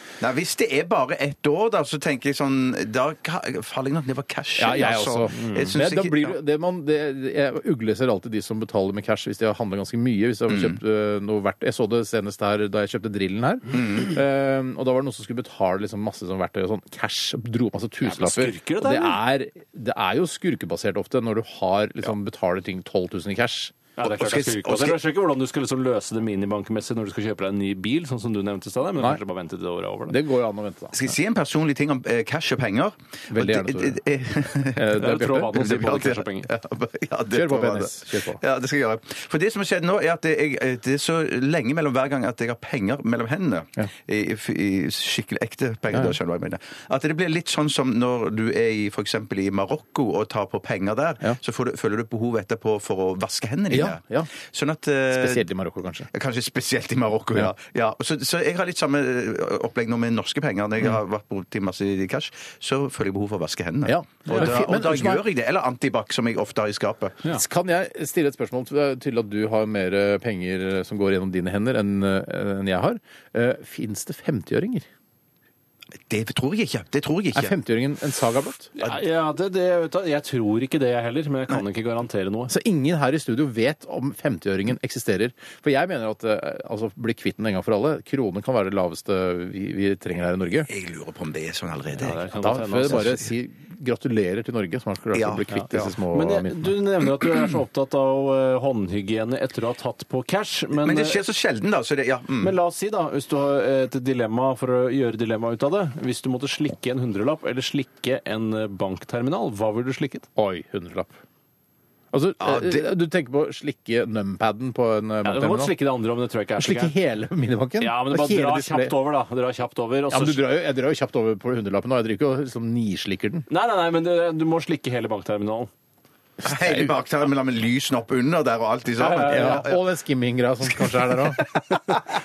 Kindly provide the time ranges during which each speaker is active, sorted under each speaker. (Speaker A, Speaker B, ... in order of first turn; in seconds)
Speaker A: 0.2-6.4, 10.5-10.8, 13.7-14.1, 24.0-25.0, 30.9-55.5, 56.1-67.2, 76.1-77.6, 90.7-93.2, 95.1-95.9, 100.8-102.6, 112.4-112.9, 126.4-129.8, 130.7-132.0
Speaker B: 4.6-23.7, 30.1-31.0, 33.3-34.0, 34.8-35.7, 37.3-38.4, 53.7-54.3, 55.1-56.1, 63.9-65.2, 67.3-74.9, 77.3-78.7, 82.5-90.7, 92.4-96.7, 110.4-111.2, 112.1-115.7, 116.6-118.9, 120.1-123.5, 126.4-126.9, 129.0-131.5
Speaker C: 5.4-5.7, 18.0-19.2, 24.0-30.2, 35.0-36.5, 78.8-82.5, 92.0-93.2, 95.5-101.2, 102.4-110.3, 115.2-116.9, 117.8-120.4, 123.5-125.7, 129.0-129.6